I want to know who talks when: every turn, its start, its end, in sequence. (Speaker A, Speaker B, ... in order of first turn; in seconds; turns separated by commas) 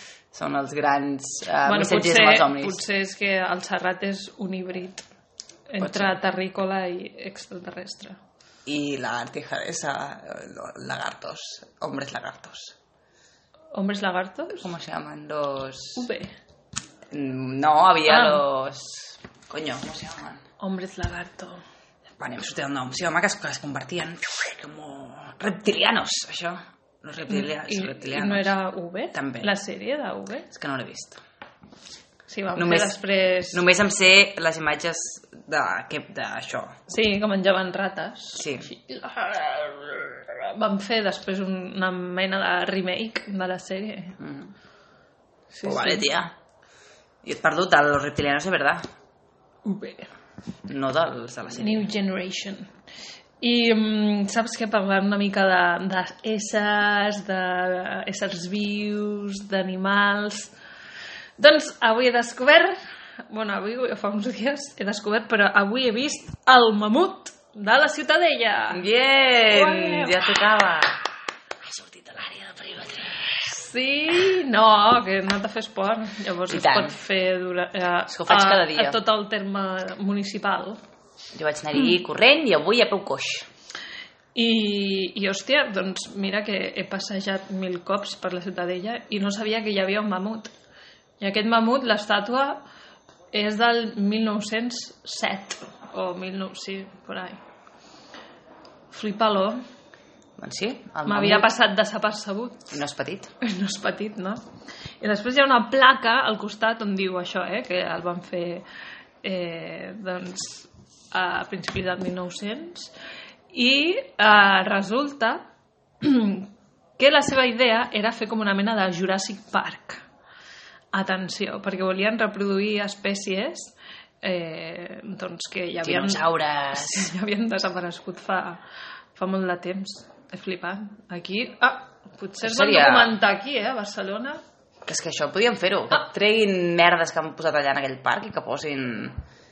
Speaker A: 0.3-2.8, Speaker B: 1.6-5.0, Speaker B: 5.7-8.2, Speaker A: 5.8-6.2, Speaker A: 8.7-12.8, Speaker B: 13.7-14.7, Speaker A: 14.6-16.1, Speaker B: 16.0-16.3, Speaker A: 17.1-20.4, Speaker B: 18.1-18.4, Speaker B: 20.6-21.6, Speaker A: 22.2-28.5, Speaker B: 27.3-30.5, Speaker A: 29.1-29.5, Speaker A: 30.5-31.2, Speaker B: 32.3-33.6, Speaker A: 32.6-33.0, Speaker A: 33.5-36.7, Speaker B: 36.9-44.2, Speaker A: 38.4-38.7, Speaker A: 44.2-44.5, Speaker B: 45.5-46.1, Speaker A: 45.6-46.3, Speaker A: 47.2-48.8, Speaker B: 49.6-50.1, Speaker A: 50.7-51.9, Speaker B: 51.6-52.7, Speaker B: 53.4-60.5, Speaker B: 61.4-62.8, Speaker B: 63.3-68.8, Speaker A: 68.7-71.0, Speaker B: 69.5-70.2, Speaker A: 71.7-73.2, Speaker B: 73.3-80.8, Speaker A: 76.5-76.9, Speaker A: 78.1-79.0, Speaker A: 81.4-83.5, Speaker B: 84.3-90.5, Speaker B: 91.2-92.6, Speaker B: 93.3-97.4, Speaker B: 98.9-99.6, Speaker A: 100.4-101.5, Speaker B: 101.1-102.8, Speaker A: 102.7-103.3, Speaker B: 103.4-104.4, Speaker B: 105.0-108.7, Speaker B: 109.2-112.9, Speaker B: 113.5-115.4, Speaker B: 116.0-120.0, Speaker B: 120.9-128.6, Speaker A: 125.8-127.1, Speaker B: 129.2-134.4, Speaker A: 132.4-133.1, Speaker A: 134.9-139.2